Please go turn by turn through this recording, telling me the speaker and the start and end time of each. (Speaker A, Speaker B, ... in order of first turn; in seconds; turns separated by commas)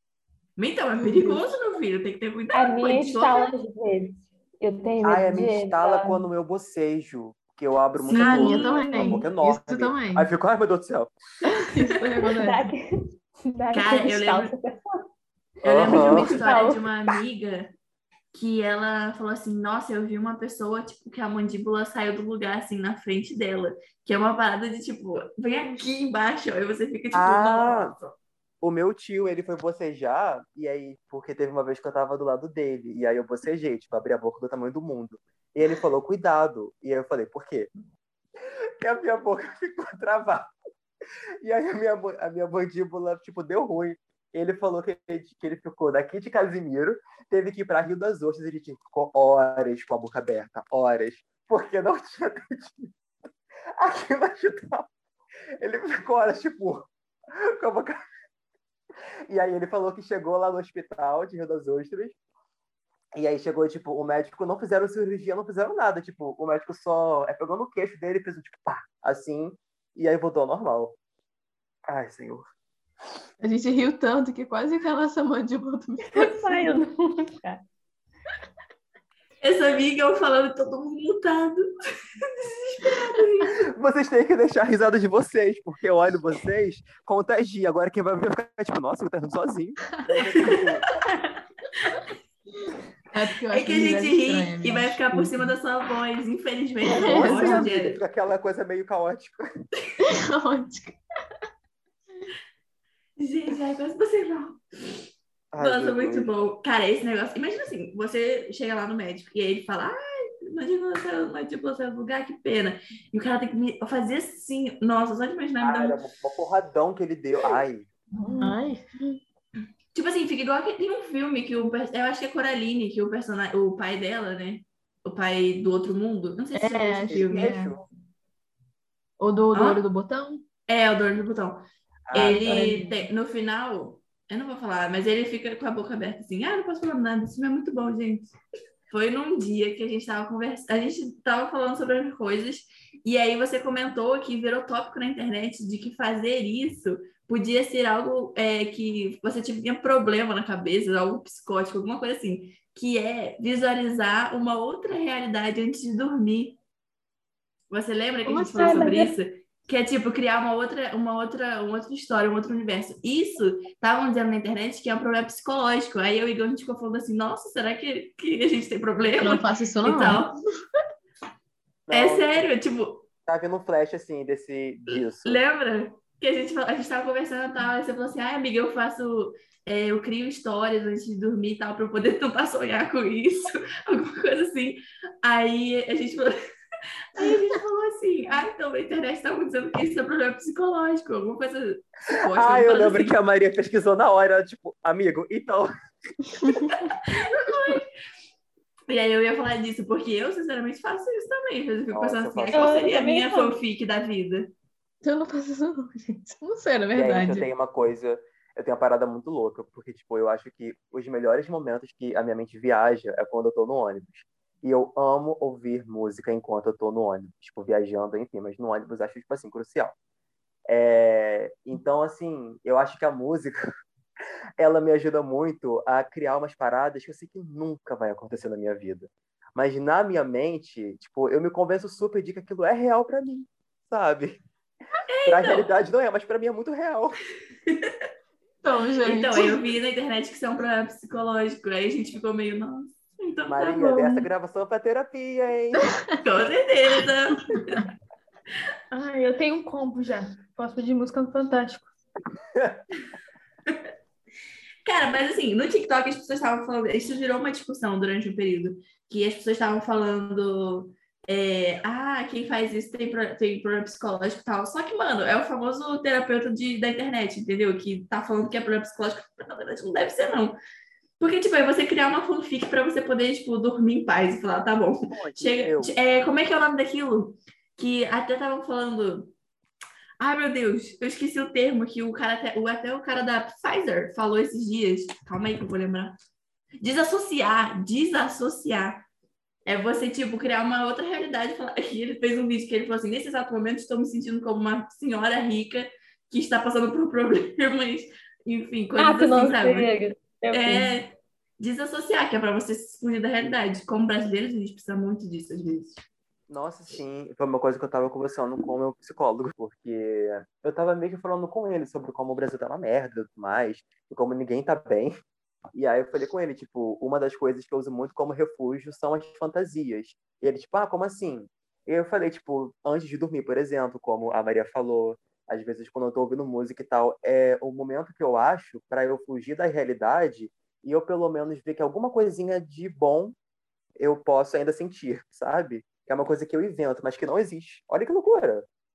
Speaker A: 0.6-3.5, Speaker B: 1.0-1.5, Speaker C: 2.5-6.2, Speaker D: 5.0-11.1, Speaker B: 8.1-10.3, Speaker A: 8.1-9.2, Speaker B: 11.6-12.7, Speaker C: 12.4-14.8, Speaker A: 13.7-14.5, Speaker D: 15.6-16.3, Speaker A: 15.7-17.8, Speaker C: 15.8-16.9, Speaker A: 18.3-28.1, Speaker D: 27.1-28.0, Speaker D: 28.6-37.7, Speaker D: 38.8-40.5, Speaker D: 41.4-52.9, Speaker D: 53.8-54.9, Speaker D: 55.6-56.9, Speaker D: 57.4-58.0, Speaker D: 59.3-62.2, Speaker D: 63.1-71.0, Speaker D: 71.9-72.4, Speaker B: 73.4-76.7, Speaker C: 76.1-77.6, Speaker A: 79.4-83.7, Speaker D: 83.8-90.9, Speaker A: 90.4-90.7, Speaker B: 93.1-95.6, Speaker A: 93.5-98.0, Speaker D: 96.9-99.5, Speaker B: 97.0-97.7, Speaker B: 100.0-101.0, Speaker A: 103.2-104.6, Speaker D: 105.5-106.3, Speaker A: 105.6-116.0, Speaker D: 115.6-117.9, Speaker C: 118.1-118.6, Speaker B: 118.4-119.2, Speaker A: 119.9-127.6, Speaker B: 126.5-127.7, Speaker D: 127.1-127.8, Speaker B: 129.2-130.4, Speaker A: 129.5-129.8, Speaker A: 130.7-138.3, Speaker D: 132.1-132.5, Speaker B: 132.4-133.1, Speaker A: 138.9-156.6, Speaker A: 157.7-170.4, Speaker B: 158.3-158.9, Speaker C: 158.5-159.1, Speaker B: 169.2-170.3, Speaker D: 171.9-172.5, Speaker A: 171.9-173.1, Speaker D: 173.3-175.4, Speaker A: 174.9-186.4, Speaker A: 187.2-193.2, Speaker D: 192.3-195.7, Speaker B: 196.4-196.7, Speaker A: 197.1-197.9, Speaker A: 198.9-204.5, Speaker D: 201.9-202.7, Speaker C: 202.5-203.6, Speaker B: 205.0-207.5, Speaker D: 206.9-219.9, Speaker D: 220.7-223.7, Speaker D: 224.6-234.4, Speaker A: 235.1-235.7, Speaker D: 235.2-237.2, Speaker A: 237.7-237.9, Speaker B: 238.6-239.6, Speaker A: 239.0-244.3, Speaker D: 243.5-245.9, Speaker A: 246.2-247.9, Speaker B: 247.5-247.8, Speaker C: 248.9-251.9, Speaker D: 252.6-252.8, Speaker A: 254.9-270.6, Speaker A: 271.2-279.3, Speaker D: 275.1-276.0, Speaker A: 280.2-286.2, Speaker A: 286.8-289.1, Speaker A: 289.7-299.9, Speaker C: 299.0-300.9, Speaker A: 300.5-306.0, Speaker D: 306.5-315.2, Speaker D: 315.8-333.4, Speaker D: 334.0-338.7